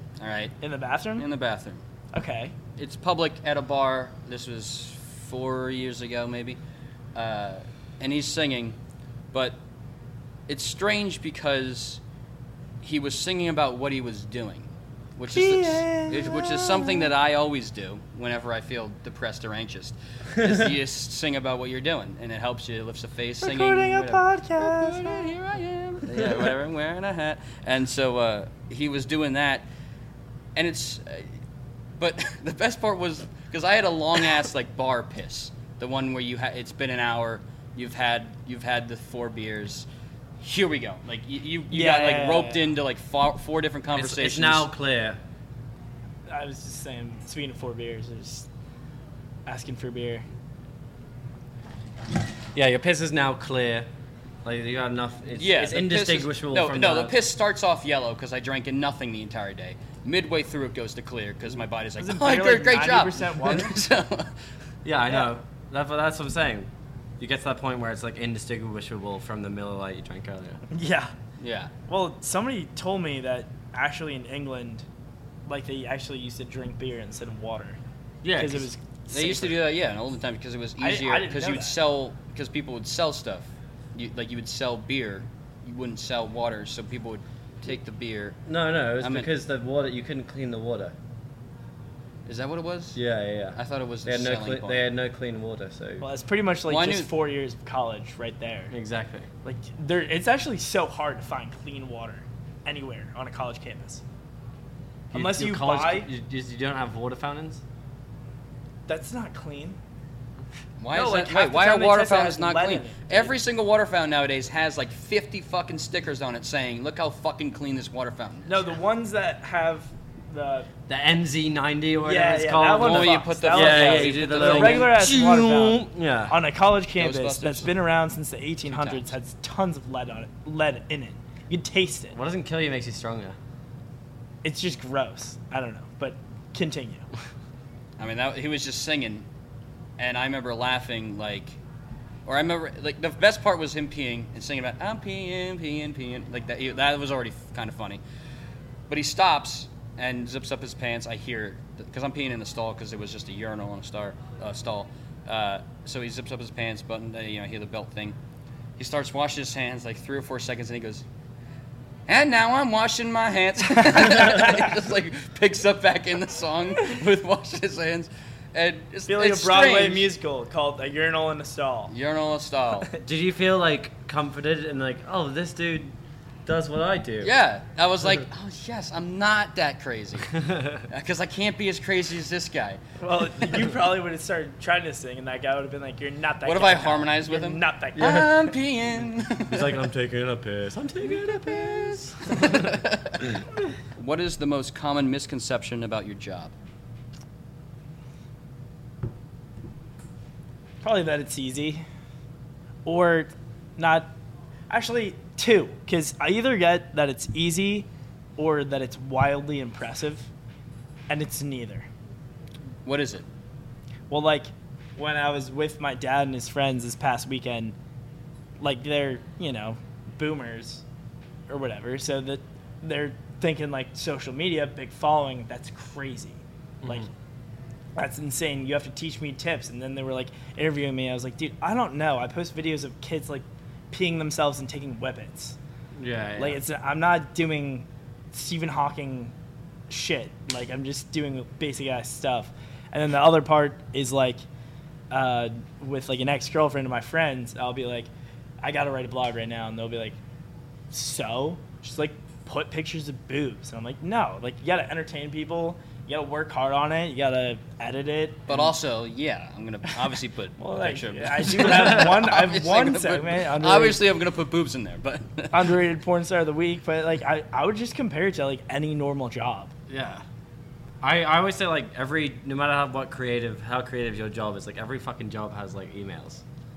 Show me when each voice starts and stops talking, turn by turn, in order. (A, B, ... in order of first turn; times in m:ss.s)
0:00.2-0:00.6 A
0:00.6-0:01.2 B
0:01.2-0:01.8 A
0:02.1-0:02.5 B
0:02.8-0:06.6 A
0:07.1-0:08.8 A
0:09.3-0:09.6 A
0:10.5-0:12.0 A
0:12.8-0:29.6 A
0:15.3-0:17.1 B
0:23.4-0:25.3 B
0:26.2-0:26.5 C
0:30.5-0:31.3 A
0:32.0-0:39.8 A
0:40.4-0:44.7 A
0:41.7-0:42.6 B
0:43.9-0:45.2 C
0:46.3-0:48.5 B
0:49.4-0:50.2 B
0:52.5-0:53.9 C
0:54.4-0:57.2 C
0:55.4-1:04.3 A
1:02.0-1:03.7 B
1:04.8-1:10.6 C
1:10.7-1:11.1 B
1:11.4-1:11.7 A
1:11.9-1:14.8 B
1:15.4-1:17.8 B
1:18.2-1:18.7 C
1:18.4-1:19.5 B
1:19.1-1:28.4 A
1:20.8-1:21.8 B
1:28.5-1:30.9 C
1:29.0-1:29.3 A
1:32.2-1:33.0 A
1:32.9-1:36.0 C
1:33.5-1:34.8 A
1:36.0-1:38.7 B
1:36.7-1:37.1 A
1:38.7-1:39.3 C
1:39.4-1:44.0 B
1:45.1-1:47.6 C
1:45.1-1:46.1 B
1:48.9-1:49.8 B
1:50.8-1:58.6 A
1:50.9-1:53.3 B
1:58.4-2:00.7 B
2:00.9-2:06.3 C
2:02.0-2:12.1 B
2:02.7-2:04.9 A
2:07.0-2:07.7 A
2:08.6-2:09.1 A
2:12.1-2:13.4 C
2:14.4-2:17.1 B
2:18.0-2:19.2 A
2:20.0-2:21.6 A
2:22.2-2:28.0 A
2:28.9-2:38.1 A
2:38.8-2:41.0 A
2:42.1-2:50.1 A
2:49.1-2:51.9 B
2:51.9-2:52.9 A
2:53.0-2:55.9 C
2:56.4-2:57.3 C
2:57.2-3:00.4 A
3:00.4-3:00.8 C
3:00.9-3:02.8 A
3:03.0-3:08.5 B
3:06.4-3:09.8 A
3:08.0-3:08.3 C
3:09.5-3:12.8 C
3:11.2-3:13.4 A
3:13.9-3:16.5 A
3:20.8-3:21.8 B
3:22.8-3:24.1 B
3:24.7-3:30.3 B
3:31.1-3:31.9 B
3:32.8-3:33.2 A
3:34.1-3:37.7 B
3:38.6-3:40.8 B
3:41.5-3:47.1 B
3:46.8-3:47.1 C
3:48.0-3:55.6 B
3:56.0-3:56.6 C
3:56.4-3:59.3 B
3:59.9-4:04.4 B
4:05.1-4:08.1 B
4:08.6-4:10.2 B
4:10.9-4:18.7 B
4:18.5-4:25.8 A
4:20.6-4:24.0 B
4:25.5-4:29.7 B
4:29.9-4:30.2 C
4:31.0-4:36.4 C